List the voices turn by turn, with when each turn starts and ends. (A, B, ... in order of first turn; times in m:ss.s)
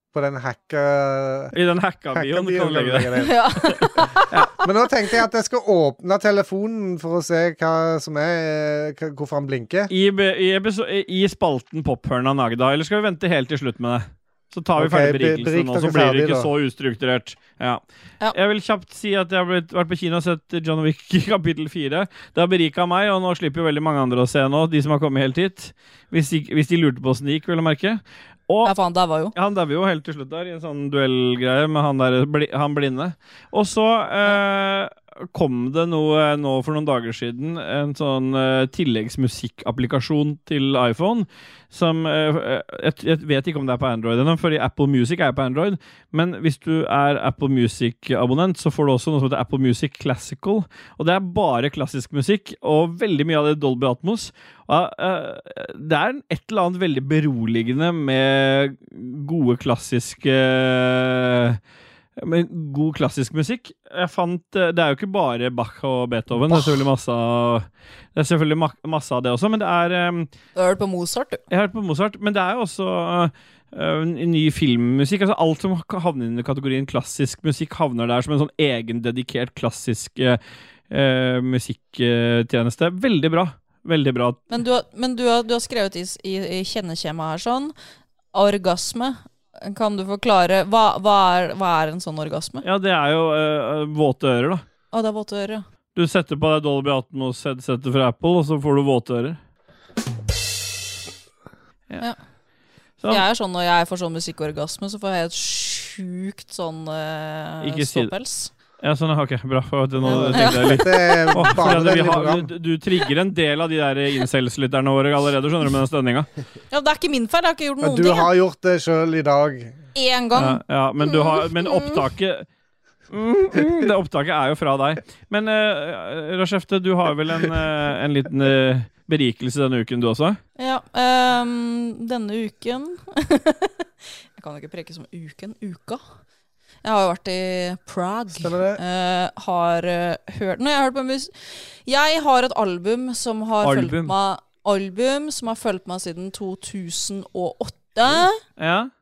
0:00.1-0:01.5 A
0:01.5-0:04.6 B
0:02.1-0:04.1 A
0:03.2-0:04.3 C
0:04.6-0:09.9 A
0:09.9-0:17.8 B
0:14.8-0:16.5 A
0:18.3-0:28.7 B
0:28.6-0:29.3 C
0:29.3-1:01.6 B
1:02.2-1:10.3 B
1:10.5-1:11.4 C
1:11.5-1:24.5 B
1:24.5-1:27.7 C
1:28.3-1:32.6 C
1:32.6-1:34.6 B
1:34.9-1:35.6 C
1:35.9-1:39.4 B
1:43.0-1:43.2 B
1:43.1-1:48.5 C
1:47.6-1:48.1 B
1:48.8-1:56.3 B
1:50.0-1:51.2 C
1:50.0-1:52.5 A
1:56.7-1:58.3 C
1:57.8-1:59.8 A
1:59.9-2:02.0 C
2:00.4-2:02.4 B
2:03.1-2:10.4 B
2:10.6-2:16.0 C
2:16.8-2:28.4 C
2:18.3-2:18.8 A
2:23.6-2:24.1 B
2:28.6-2:28.9 B